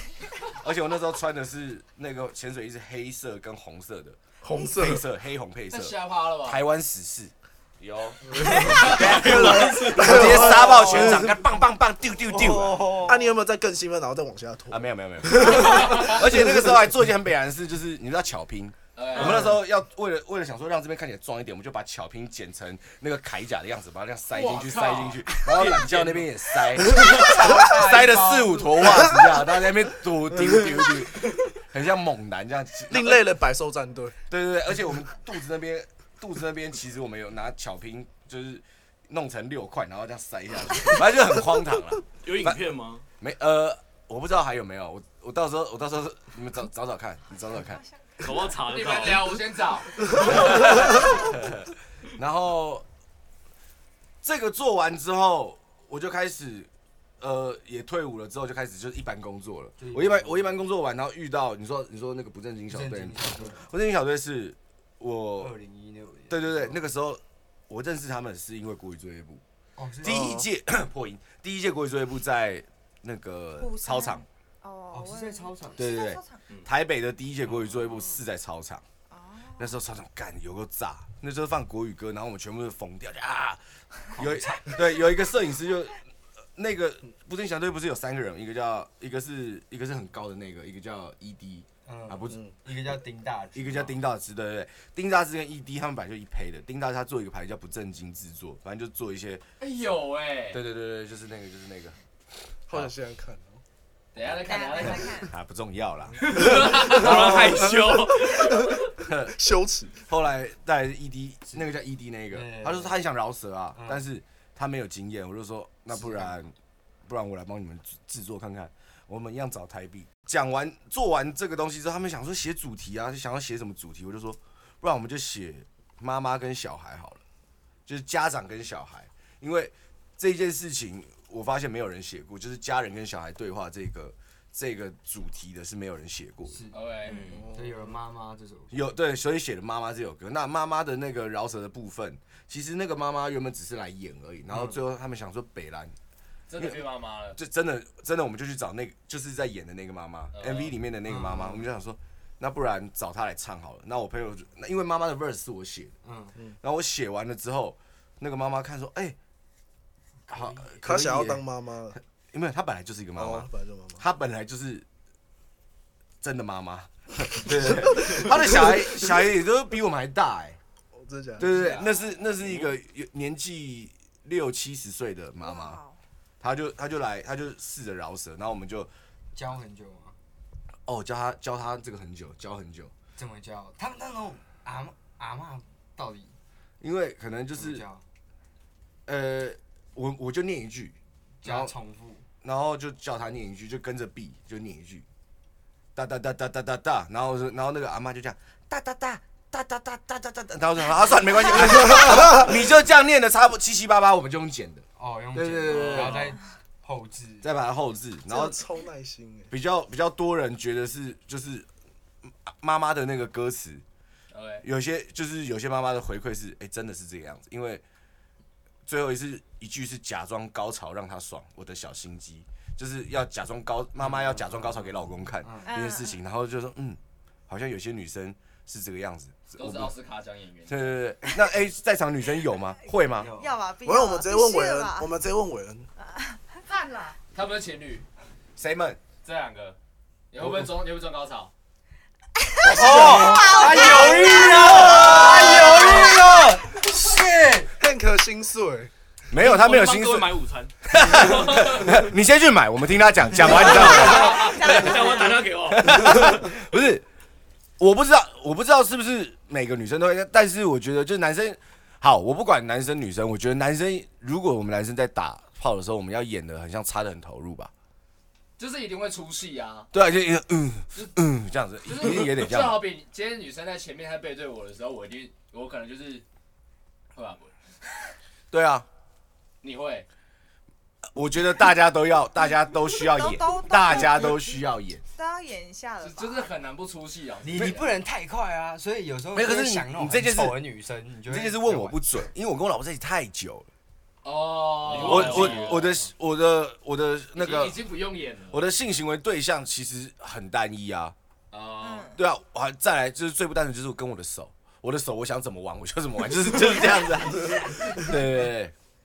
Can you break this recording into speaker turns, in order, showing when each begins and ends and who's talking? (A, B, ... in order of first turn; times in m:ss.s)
0:00.4-0:13.0 A
0:04.4-0:05.0 B
0:05.7-0:06.6 C
0:08.3-0:11.4 B
0:08.6-0:09.0 C
0:09.1-0:10.3 D
0:10.4-0:11.2 E
0:12.3-0:13.3 E
0:13.0-0:16.9 B
0:14.7-0:33.2 A
0:15.7-0:16.1 C
0:18.9-0:19.5 C
0:24.3-0:25.8 C
0:27.2-0:28.6 C
0:32.9-0:34.2 B
0:34.3-0:42.6 A
0:42.2-0:43.0 D
0:43.2-0:47.8 A
0:48.2-0:49.4 D
0:48.6-0:51.0 C
0:50.2-0:52.8 A
0:50.5-0:50.9 D
0:54.2-1:05.5 A
0:59.8-1:00.6 E
1:02.7-1:03.7 E
1:05.4-1:06.9 E
1:06.3-1:09.4 A
1:09.8-1:10.3 E
1:10.0-1:14.2 A
1:10.0-1:10.5 B
1:13.6-1:16.4 F
1:14.9-1:16.0 E
1:15.8-1:18.8 A
1:19.1-1:19.7 F
1:19.6-1:23.6 A
1:24.1-1:26.0 A
1:24.1-1:24.9 E
1:26.6-1:32.4 A
1:31.8-1:34.0 E
1:33.5-1:39.4 A
1:39.6-1:40.6 C
1:40.5-1:42.0 A
1:42.7-1:43.6 B
1:44.1-1:45.2 C
1:44.2-1:47.7 A
1:44.4-1:45.3 F
1:46.2-1:48.7 D
1:46.4-1:46.8 B
1:46.5-1:47.0 C
1:48.1-1:50.0 B
1:49.0-1:49.4 A
1:50.0-1:56.5 A
1:52.3-1:53.0 E
1:53.7-1:54.1 E
1:55.9-1:56.3 E
1:57.1-2:07.2 A
2:07.8-2:16.6 A
2:16.5-2:16.8 E
2:16.7-2:17.4 C
2:17.0-2:17.5 D
2:17.3-2:18.0 B
2:17.4-2:18.9 E
2:18.7-2:25.9 A
2:24.5-2:24.8 E
2:26.5-2:27.4 C
2:26.6-2:36.0 A
2:30.3-2:30.7 C
2:31.0-2:31.6 E
2:36.0-2:36.4 E
2:36.6-2:39.2 A
2:40.3-2:41.4 A
2:40.3-2:40.6 E
2:40.8-2:42.0 B
2:42.0-2:44.8 A
2:43.2-2:44.0 B
2:46.2-2:50.6 A
2:51.0-2:51.5 B
2:51.4-2:55.8 A
2:51.5-2:52.1 C
2:55.4-2:56.0 F
2:56.4-2:58.9 A
2:59.3-3:00.1 E
3:00.9-3:02.9 A
3:03.2-3:06.3 E
3:06.8-3:07.8 A
3:07.5-3:08.0 E
3:09.0-3:11.7 A
3:11.4-3:12.2 E
3:12.4-3:15.0 A
3:15.9-3:26.3 A
3:21.8-3:22.4 B
3:25.0-3:27.5 E
3:25.7-3:26.2 C
3:25.8-3:26.2 D
3:27.4-3:28.6 A
3:28.3-3:29.5 B
3:29.5-3:31.7 A
3:32.3-3:33.8 A
3:34.3-3:34.6 C
3:34.6-3:37.8 A
3:38.8-3:49.9 A
3:44.0-3:44.9 E
3:45.4-3:45.7 E
3:45.6-3:46.2 F
3:49.5-3:50.9 C
3:50.7-3:53.3 A
3:53.1-3:53.6 E
3:53.3-3:55.1 F
3:53.8-3:55.9 B
3:56.0-3:56.8 F
3:56.9-3:58.0 C
3:58.6-3:59.0 A
3:59.2-3:59.8 C
4:00.3-4:01.5 C
4:02.4-4:06.1 F
4:02.6-4:06.2 A
4:02.7-4:07.7 E
4:02.8-4:03.8 B
4:07.8-4:08.9 B
4:09.3-4:14.9 A
4:09.3-4:12.1 D
4:13.4-4:16.5 D
4:13.5-4:15.5 F
4:15.6-4:17.0 A
4:17.8-4:27.7 A
4:28.6-4:29.9 C
4:29.9-4:32.8 A
4:31.8-4:36.2 C
4:37.1-4:37.5 C
4:38.5-4:38.9 A
4:39.6-4:40.1 C
4:41.1-4:45.0 A
4:43.0-4:44.5 F
4:45.1-4:46.5 F
4:46.0-4:47.9 C
4:47.4-4:52.0 E
4:49.3-4:50.6 A
4:51.3-4:53.7 A
4:54.2-4:56.1 C
4:54.8-4:55.8 D
4:54.9-4:57.8 A
4:57.4-4:58.6 C
4:58.5-5:01.1 A
5:01.5-5:02.2 C
5:01.8-5:02.2 F
5:02.1-5:08.7 A